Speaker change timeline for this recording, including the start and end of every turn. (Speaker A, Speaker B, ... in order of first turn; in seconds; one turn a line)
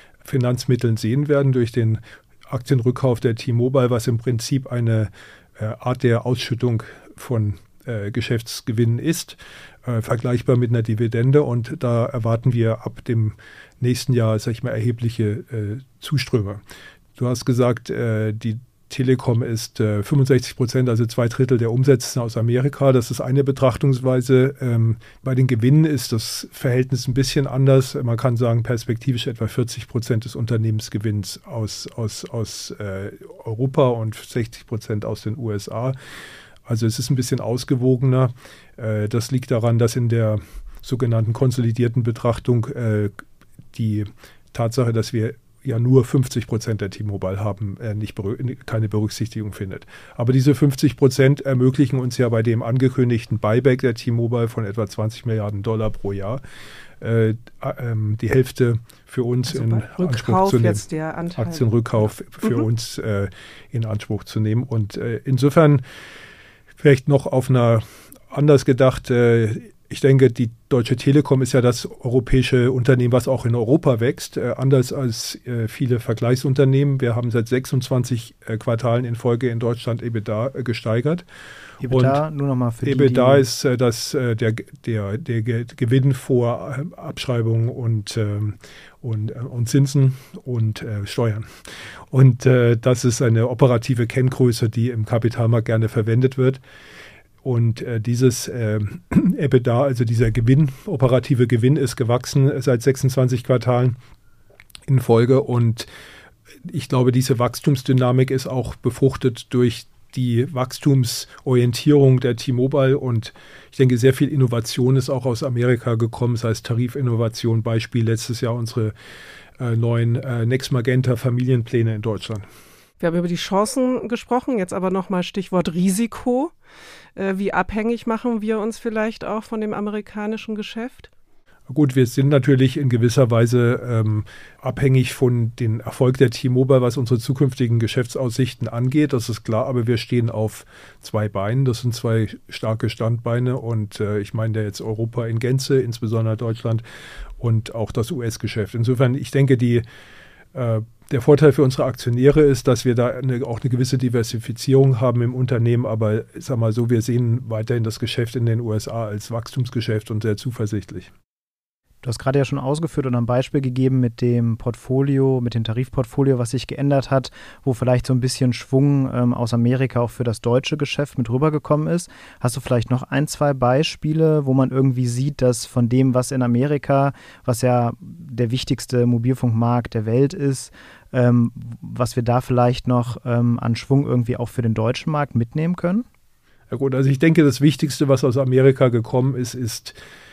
Speaker A: 0.2-16.6
Speaker A: 17.2-35.9
Speaker A: 36.6-43.1
Speaker A: 43.7-56.4
Speaker A: 57.0-60.8
Speaker B: 59.5-62.1
Speaker A: 61.4-65.8
Speaker A: 66.8-81.2
Speaker C: 81.8-83.5
Speaker A: 81.9-82.2
Speaker A: 82.8-96.6
Speaker A: 97.4-104.0
Speaker A: 104.9-105.9
Speaker A: 106.6-118.9
Speaker A: 119.6-122.5
Speaker B: 123.0-126.5
Speaker B: 127.2-131.1
Speaker A: 131.7-146.8
Speaker A: 147.4-149.8
Speaker A: 150.5-161.1
Speaker C: 162.0-186.0
Speaker A: 186.7-190.0